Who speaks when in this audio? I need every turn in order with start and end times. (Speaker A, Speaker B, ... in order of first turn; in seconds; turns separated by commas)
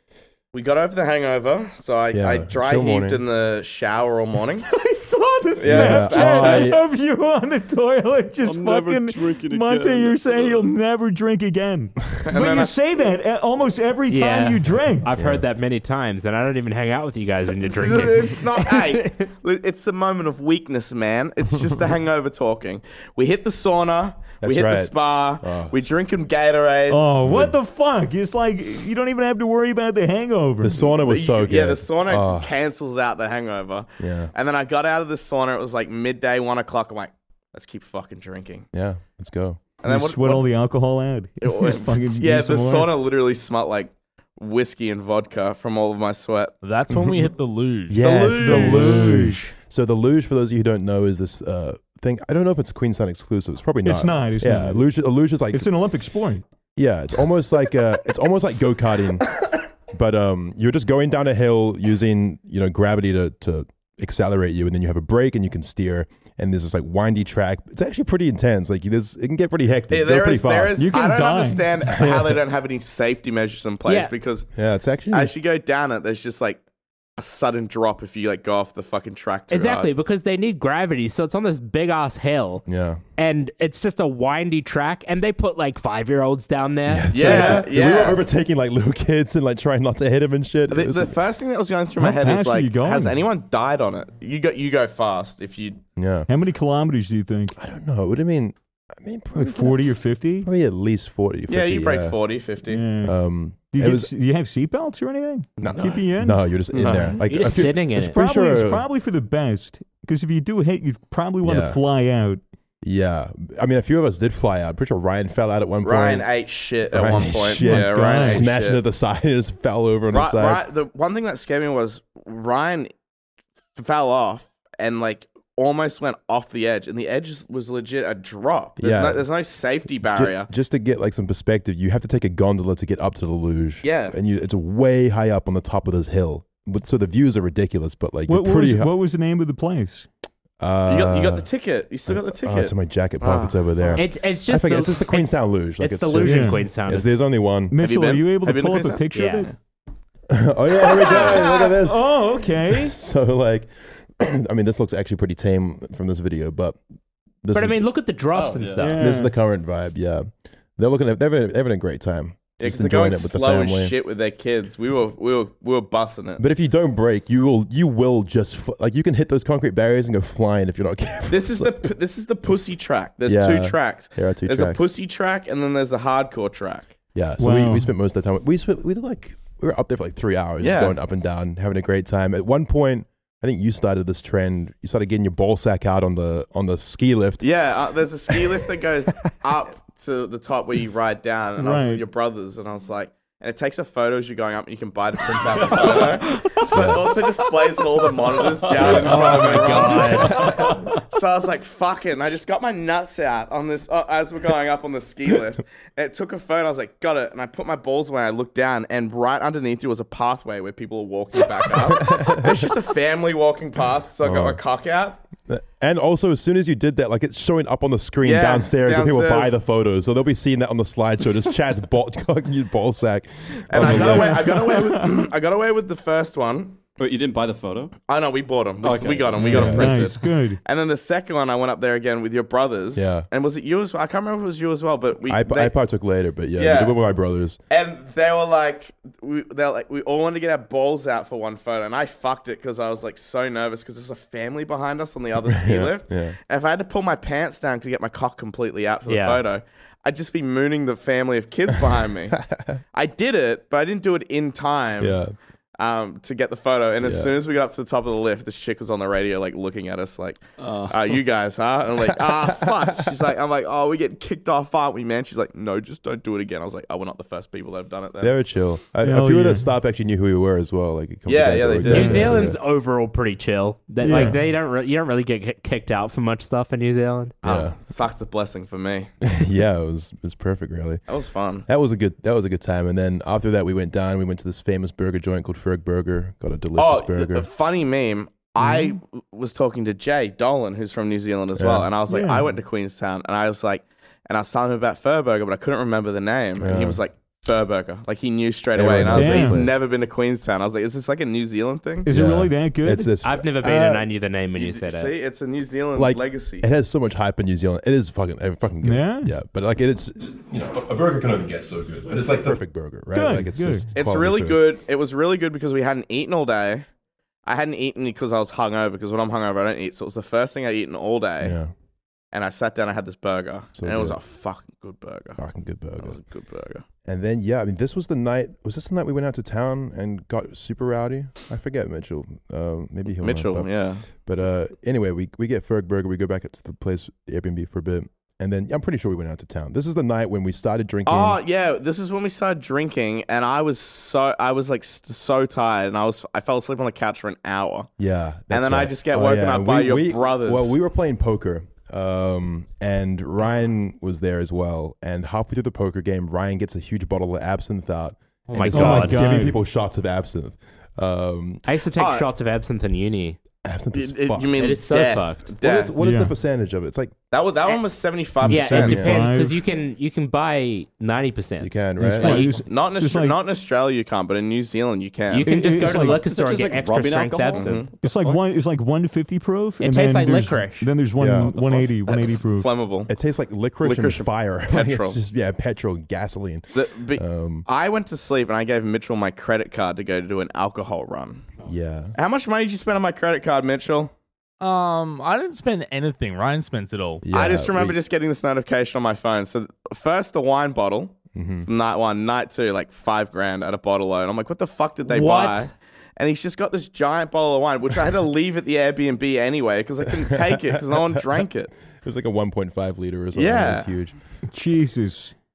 Speaker A: 0.5-4.7, Speaker B: 2.1-3.2, Speaker C: 4.7-15.1, Speaker A: 5.6-6.8, Speaker B: 5.6-6.8, Speaker D: 8.4-10.7, Speaker A: 12.2-12.7, Speaker E: 14.1-19.3, Speaker B: 15.1-15.4, Speaker A: 17.6-27.2, Speaker B: 24.4-25.9, Speaker C: 26.9-30.9, Speaker B: 27.2-27.6, Speaker B: 30.6-32.5, Speaker A: 30.8-38.7, Speaker B: 34.0-34.3, Speaker B: 38.7-39.6, Speaker A: 39.8-40.5, Speaker C: 39.8-42.9, Speaker A: 41.4-46.5, Speaker F: 46.6-48.9, Speaker B: 46.9-47.3, Speaker B: 47.9-55.7, Speaker C: 48.1-49.5, Speaker C: 53.8-54.9, Speaker C: 55.5-56.4, Speaker B: 56.8-59.3, Speaker B: 59.9-70.9, Speaker A: 69.9-74.5, Speaker C: 70.8-71.7, Speaker B: 71.9-72.4, Speaker E: 73.9-74.1, Speaker B: 74.5-75.3, Speaker A: 75.1-76.6, Speaker A: 77.2-79.9, Speaker E: 79.5-82.7, Speaker B: 82.7-83.0, Speaker E: 83.2-87.6, Speaker B: 86.9-91.2, Speaker A: 87.1-88.2, Speaker A: 90.7-95.8, Speaker C: 92.0-93.2, Speaker B: 96.0-96.3, Speaker C: 96.3-97.6, Speaker B: 97.5-99.9, Speaker C: 99.3-100.5, Speaker B: 100.4-102.2, Speaker A: 101.5-102.8, Speaker C: 102.7-103.2, Speaker B: 103.0-104.1, Speaker C: 103.7-112.4, Speaker B: 105.6-108.8, Speaker E: 106.8-108.2, Speaker B: 111.4-111.8, Speaker B: 112.8-116.2, Speaker A: 115.8-118.8, Speaker B: 116.9-120.6, Speaker C: 117.6-118.5, Speaker A: 120.1-122.9, Speaker A: 123.8-130.5, Speaker B: 128.8-129.2, Speaker B: 130.0-138.9, Speaker A: 133.8-134.1, Speaker C: 138.3-140.1, Speaker B: 140.6-141.5, Speaker A: 140.9-144.0, Speaker B: 142.1-147.8, Speaker E: 144.0-147.2, Speaker C: 146.2-146.6, Speaker C: 147.7-149.5, Speaker A: 147.8-149.5, Speaker E: 149.1-149.5, Speaker B: 150.3-156.8, Speaker C: 150.8-152.9, Speaker A: 151.1-151.4, Speaker B: 157.4-157.9, Speaker E: 157.5-159.0, Speaker D: 158.3-158.9, Speaker C: 158.8-159.3, Speaker B: 159.0-163.9, Speaker A: 162.6-166.4, Speaker B: 166.4-171.9, Speaker A: 171.3-176.9, Speaker B: 173.3-174.9, Speaker B: 177.1-187.5, Speaker C: 177.4-177.9, Speaker A: 180.6-180.9, Speaker A: 187.4-215.2, Speaker C: 191.6-192.0, Speaker B: 196.6-197.2, Speaker B: 198.7-200.8, Speaker C: 199.1-201.0, Speaker F: 199.4-199.9, Speaker B: 211.8-212.7, Speaker B: 214.2-214.6, Speaker B: 215.5-224.6, Speaker A: 218.2-219.6, Speaker A: 223.7-226.8, Speaker C: 223.8-225.1, Speaker D: 227.0-227.9, Speaker A: 228.1-235.7, Speaker D: 228.8-229.5, Speaker C: 229.4-230.6, Speaker B: 229.4-229.9, Speaker B: 232.9-233.2, Speaker B: 235.3-237.6, Speaker A: 236.6-237.0, Speaker A: 237.7-252.4, Speaker B: 245.4-246.4, Speaker E: 249.1-249.4, Speaker B: 252.3-252.8, Speaker A: 252.9-255.2, Speaker B: 255.0-255.3, Speaker A: 255.8-268.3, Speaker B: 257.0-257.3, Speaker D: 260.6-261.2, Speaker B: 262.2-263.1, Speaker B: 268.2-272.6, Speaker C: 269.0-269.7, Speaker A: 271.2-272.4, Speaker C: 271.9-272.5, Speaker E: 271.9-277.4, Speaker C: 274.0-274.4, Speaker B: 274.0-274.4, Speaker B: 277.4-277.8, Speaker A: 277.4-279.1, Speaker B: 279.2-281.0, Speaker A: 281.1-281.6, Speaker B: 281.6-287.4, Speaker A: 286.8-302.1, Speaker C: 288.6-288.9, Speaker B: 291.6-291.9, Speaker C: 292.1-292.5, Speaker B: 296.6-297.0, Speaker B: 298.7-299.8, Speaker C: 299.1-299.6, Speaker C: 302.0-303.1, Speaker B: 302.1-304.1, Speaker E: 303.2-305.1, Speaker A: 304.5-306.6, Speaker B: 305.9-314.6, Speaker C: 308.8-309.3, Speaker C: 313.1-313.9, Speaker A: 313.9-316.9, Speaker A: 317.4-321.6, Speaker B: 321.4-321.7, Speaker A: 322.3-325.4, Speaker B: 323.8-324.2, Speaker B: 325.4-326.2, Speaker A: 326.0-326.8, Speaker B: 327.0-341.4, Speaker A: 333.2-334.0, Speaker A: 341.1-347.9, Speaker B: 348.0-361.6, Speaker A: 348.5-350.7, Speaker E: 358.5-359.2, Speaker C: 358.7-359.6, Speaker E: 361.6-363.4, Speaker A: 361.9-362.3, Speaker B: 363.6-364.6, Speaker A: 363.9-365.9, Speaker E: 364.5-365.5, Speaker B: 365.6-367.1, Speaker C: 366.0-366.3, Speaker A: 367.3-369.1, Speaker B: 368.4-369.2, Speaker C: 368.5-369.6, Speaker E: 368.5-372.5, Speaker B: 371.6-372.4, Speaker C: 372.0-373.4, Speaker A: 372.2-375.5, Speaker E: 375.3-377.9, Speaker C: 375.4-376.2, Speaker D: 375.7-378.4, Speaker A: 377.5-377.9, Speaker C: 378.0-382.7, Speaker E: 379.8-381.9, Speaker B: 381.2-381.5, Speaker A: 382.1-383.1, Speaker B: 383.1-387.6, Speaker A: 383.8-385.2, Speaker A: 386.7-391.5, Speaker B: 391.6-392.1, Speaker A: 392.1-394.1, Speaker F: 394.6-397.2, Speaker B: 397.2-398.0, Speaker A: 397.3-411.7, Speaker B: 401.3-401.7, Speaker E: 405.1-405.7, Speaker B: 410.2-414.1, Speaker A: 413.3-413.9, Speaker C: 414.5-415.3